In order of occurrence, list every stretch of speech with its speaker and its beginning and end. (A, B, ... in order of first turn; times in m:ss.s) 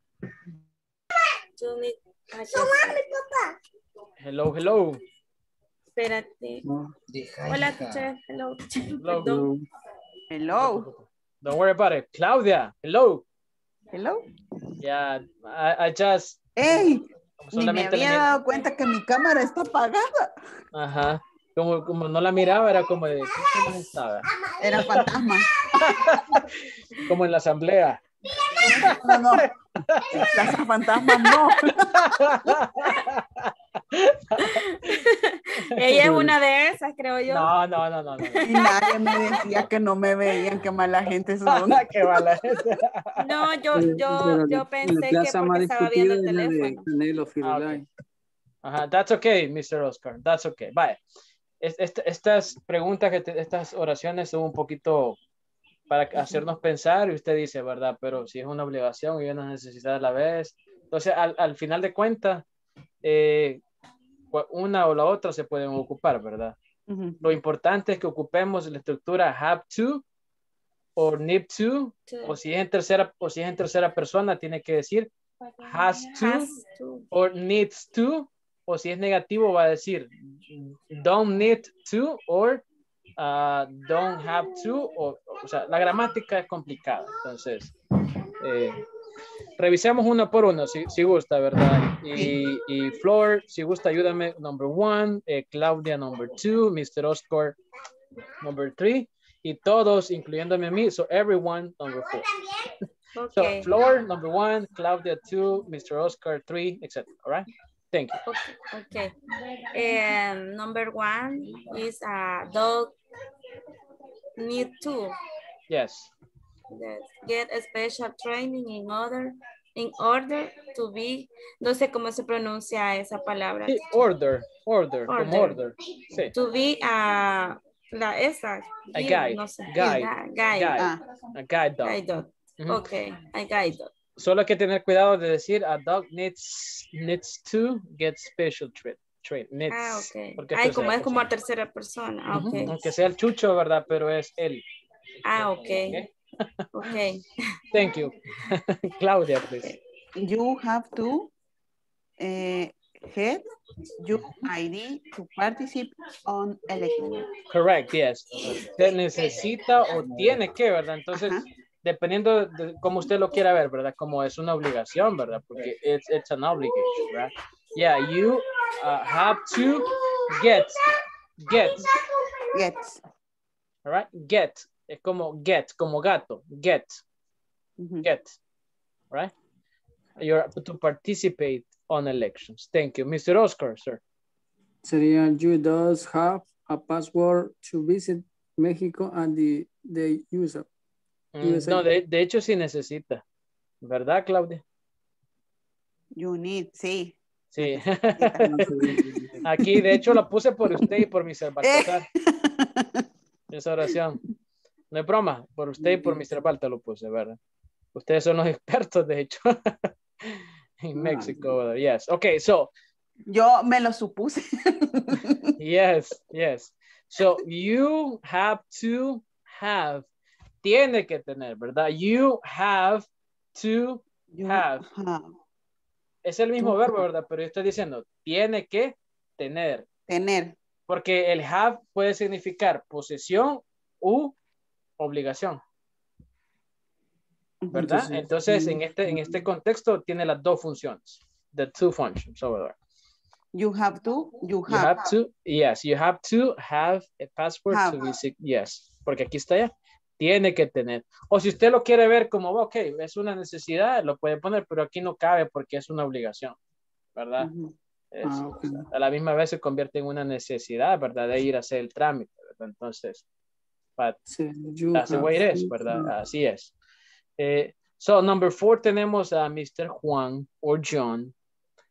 0:01.6-0:03.0 A
0:02.5-0:03.4 B
0:04.2-0:05.0 C
0:06.0-0:06.6 A
0:06.6-0:06.9 D
0:07.4-0:09.4 A
0:09.0-0:09.3 C
0:09.2-0:09.6 D
0:10.3-0:10.9 B
0:10.6-0:13.2 C
0:13.9-0:14.2 B
0:14.8-0:16.5 C
0:16.6-0:20.3 B
0:17.4-0:18.4 C
0:20.7-0:24.3 C
0:24.6-0:25.5 B
0:24.8-0:25.1 C
0:25.8-0:28.0 C
0:28.6-0:34.9 C
0:28.6-0:29.5 B
0:30.1-0:32.1 B
0:35.0-0:37.5 A
0:36.0-0:36.3 D
0:37.3-0:38.5 C
0:38.4-0:42.1 B
0:38.5-0:39.4 A
0:41.4-0:42.9 C
0:43.2-0:46.9 A
0:43.7-0:47.9 D
0:47.4-0:47.8 C
0:48.6-0:51.0 C
0:51.6-0:55.2 C
0:55.9-1:02.4 C
1:03.0-1:03.6 C
1:04.3-1:06.5 C
1:06.9-1:07.3 B
1:07.2-1:10.0 C
1:11.0-1:15.1 C
1:12.1-1:12.3 A
1:15.6-1:16.5 C
1:16.1-1:17.1 A
1:17.1-1:22.6 C
1:23.2-1:27.7 C
1:28.4-1:28.8 C
1:29.6-1:37.6 C
1:32.1-1:32.4 B
1:38.4-1:42.3 C
1:43.1-1:43.7 A
1:43.3-1:48.2 C
1:48.2-1:49.1 A
1:49.7-1:52.9 A
1:54.4-1:55.2 A
1:55.7-1:56.1 C
1:56.7-2:04.0 A
2:03.7-2:06.3 C
2:05.1-2:05.6 A
2:06.3-2:10.9 A
2:08.9-2:12.0 C
2:11.8-2:13.9 A
2:12.6-2:12.8 C
2:14.2-2:21.3 C
2:19.7-2:22.9 A
2:22.3-2:24.6 C
2:25.2-2:26.0 A
2:25.6-2:26.1 C
2:26.7-2:27.2 A
2:27.7-2:29.8 C
2:30.2-2:31.3 B
2:32.2-2:33.4 B
2:34.0-2:37.3 B
2:37.5-2:50.8 C
2:41.1-2:41.4 B
2:51.4-2:51.9 C
2:52.5-2:53.0 B
2:53.8-2:57.0 C
2:57.8-2:58.1 B
2:58.0-2:58.4 C
3:00.2-3:04.0 C
3:04.8-3:10.7 D
3:11.3-3:13.2 C
3:11.4-3:11.8 D
3:13.8-3:14.6 C
3:16.2-3:18.6 B
3:17.5-3:18.5 C
3:18.4-3:19.4 D
3:19.4-3:20.2 B
3:19.4-3:22.0 C
3:21.6-3:22.9 B
3:23.5-3:24.2 C
3:24.9-3:27.4 C
3:27.9-3:29.7 C
3:30.2-3:32.7 C
3:33.3-3:35.4 B
3:35.6-3:40.0 C
3:40.6-3:44.8 C
3:44.3-3:45.3 B
3:46.2-3:49.9 C
3:46.6-3:47.0 B
3:50.1-3:50.5 B
3:50.9-3:54.4 C
3:55.0-3:55.6 C
3:57.6-3:59.3 B
3:57.7-4:02.8 C
4:03.5-4:05.1 B
4:04.7-4:16.6 C
4:07.7-4:08.1 B
4:17.2-4:17.5 C
4:17.4-4:17.7 B
4:18.1-4:23.2 C
4:18.2-4:18.9 D
4:24.3-4:26.1 D
4:24.9-4:26.7 C
4:27.4-4:31.3 C